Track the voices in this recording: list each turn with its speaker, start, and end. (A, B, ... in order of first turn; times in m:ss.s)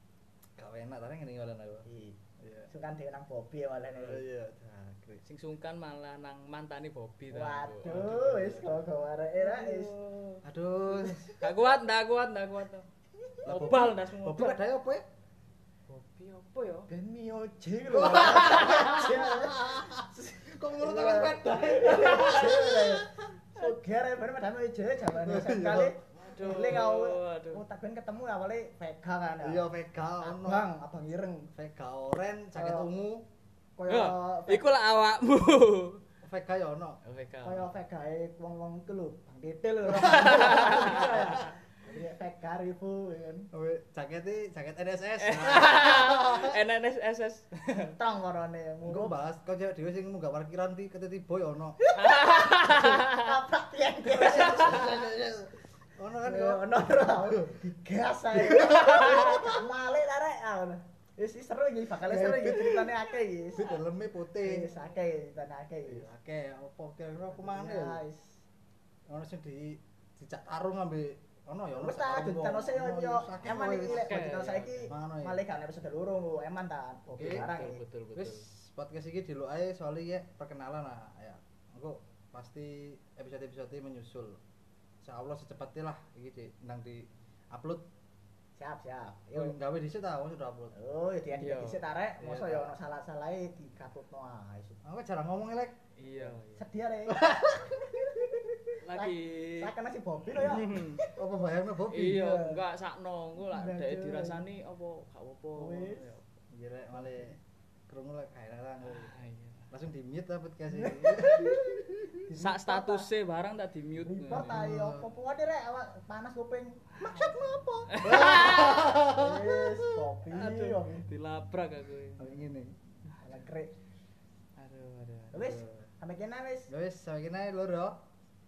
0:00.6-0:01.8 A
0:01.8-0:04.2 B
0:02.4-0:02.7 A
0:03.9-0:05.2 A
0:05.2-0:08.2 C
0:07.3-0:10.0 B
0:07.8-0:08.8 A
0:09.4-0:10.4 C
0:10.4-0:11.4 A
0:11.4-0:12.9 C
0:13.4-0:15.1 A
0:13.4-0:14.6 C
0:15.9-0:16.9 C
0:16.9-0:31.5 B
0:17.9-0:23.1 A
0:18.4-0:19.1 C
0:21.6-0:23.0 C
0:25.1-0:26.0 A
0:26.1-0:27.6 C
0:29.4-0:30.7 A
0:31.5-0:33.2 A
0:32.5-0:32.9 B
0:33.8-0:34.7 B
0:33.9-0:36.0 C
0:36.2-0:37.0 A
0:37.0-0:37.7 C
0:37.4-0:43.5 B
0:40.1-0:41.6 C
0:43.5-0:46.6 A
0:45.2-0:47.9 C
0:47.7-0:49.2 B
0:48.8-0:51.8 A
0:51.8-0:55.0 B
0:51.9-0:53.3 C
0:54.2-0:57.6 A
0:54.2-0:54.8 C
0:56.2-1:03.8 B
0:58.3-0:59.6 A
0:59.0-0:59.3 C
1:02.0-1:03.0 A
1:03.5-1:04.7 A
1:04.4-1:06.1 B
1:05.8-1:08.0 A
1:07.3-1:08.4 B
1:09.1-1:14.2 A
1:11.8-1:17.8 B
1:13.8-1:14.9 C
1:14.9-1:15.4 A
1:17.1-1:17.5 A
1:17.2-1:18.5 C
1:18.1-1:24.4 A
1:25.0-1:27.9 A
1:28.5-1:29.6 B
1:29.3-1:30.7 A
1:30.7-1:34.8 B
1:31.3-1:31.9 C
1:32.2-1:32.7 A
1:34.8-1:35.8 A
1:36.0-1:36.6 C
1:36.2-1:41.1 B
1:37.1-1:38.0 A
1:38.8-1:39.7 C
1:40.3-1:41.0 C
1:41.0-1:42.6 A
1:41.9-1:46.2 C
1:43.4-1:44.4 B
1:45.6-1:46.2 B
1:46.5-1:49.1 A
1:48.8-1:49.7 C
1:49.7-1:52.3 A
1:50.7-1:53.1 B
1:52.3-1:54.6 C
1:54.0-2:01.1 B
1:54.3-1:55.1 A
1:57.0-1:57.4 C
1:57.9-1:59.0 C
1:58.0-2:00.2 A
2:00.3-2:02.4 C
2:02.2-2:02.8 A
2:03.2-2:03.7 B
2:04.6-2:05.6 C
2:05.3-2:06.7 B
2:05.4-2:05.8 A
2:06.7-2:08.0 A